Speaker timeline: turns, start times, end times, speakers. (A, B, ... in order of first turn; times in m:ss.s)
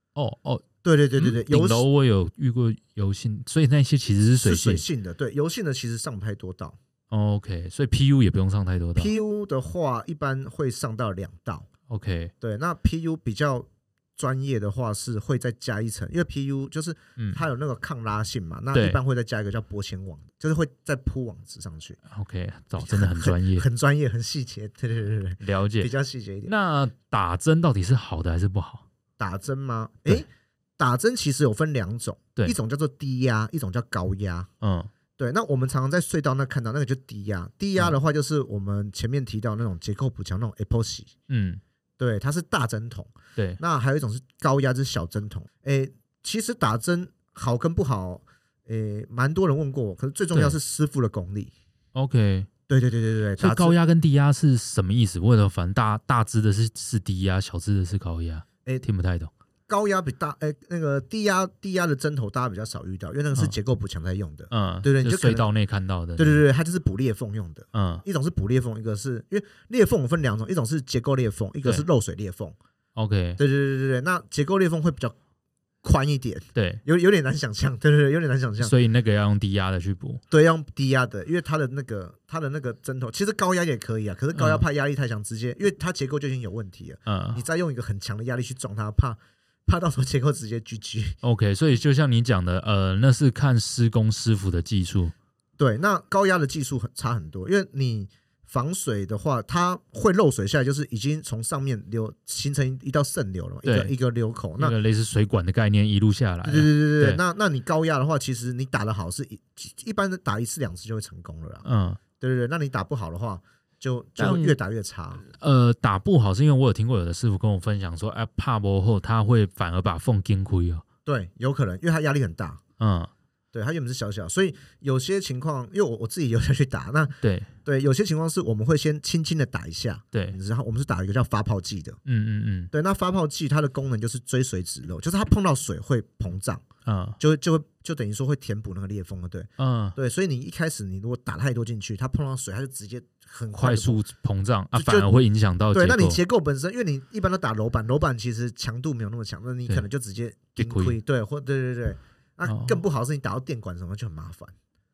0:00.2-0:04.8 A
0:00.8-0:01.9 B
0:04.4-0:06.8 B
0:07.1-0:09.1 A
0:09.0-0:11.7 B
0:11.9-0:12.3 A
0:12.4-0:22.0 B
0:17.2-0:17.4 A
0:18.7-0:19.0 A
0:22.1-0:23.7 A
0:22.8-0:26.6 B
0:25.4-0:25.9 A
0:26.4-0:28.8 A
0:29.2-0:34.5 B
0:34.6-0:34.9 A
0:35.2-0:41.1 B
0:41.3-0:41.6 A
0:42.0-0:51.5 B
0:50.3-0:50.6 A
0:52.0-0:52.5 A
0:52.7-0:53.8 B
0:53.4-0:59.3 A
0:59.7-1:05.5 B
1:04.5-1:06.4 A
1:06.2-1:12.6 B
1:07.7-1:08.0 A
1:11.6-1:11.9 A
1:13.0-1:13.4 A
1:13.4-1:15.2 B
1:15.8-1:18.7 B
1:16.6-1:16.8 A
1:18.6-1:20.2 A
1:20.3-1:31.2 B
1:24.4-1:24.6 A
1:27.1-1:27.4 A
1:31.2-1:35.2 A
1:35.6-1:44.8 B
1:43.6-1:43.9 A
1:44.6-1:47.2 A
1:46.4-1:51.6 B
1:51.6-1:52.0 A
1:52.2-1:55.2 B
1:54.2-1:54.6 A
1:55.2-2:00.8 A
2:01.1-2:02.6 B
2:02.8-2:03.1 A
2:03.5-2:12.0 B
2:07.2-2:07.5 A
2:10.1-2:10.4 A
2:12.1-2:12.7 A
2:12.7-2:16.6 B
2:16.8-2:17.2 A
2:17.2-2:24.0 B
2:19.6-2:20.0 A
2:23.5-2:26.2 A
2:24.7-2:34.5 B
2:30.6-2:31.0 A
2:32.4-2:32.8 A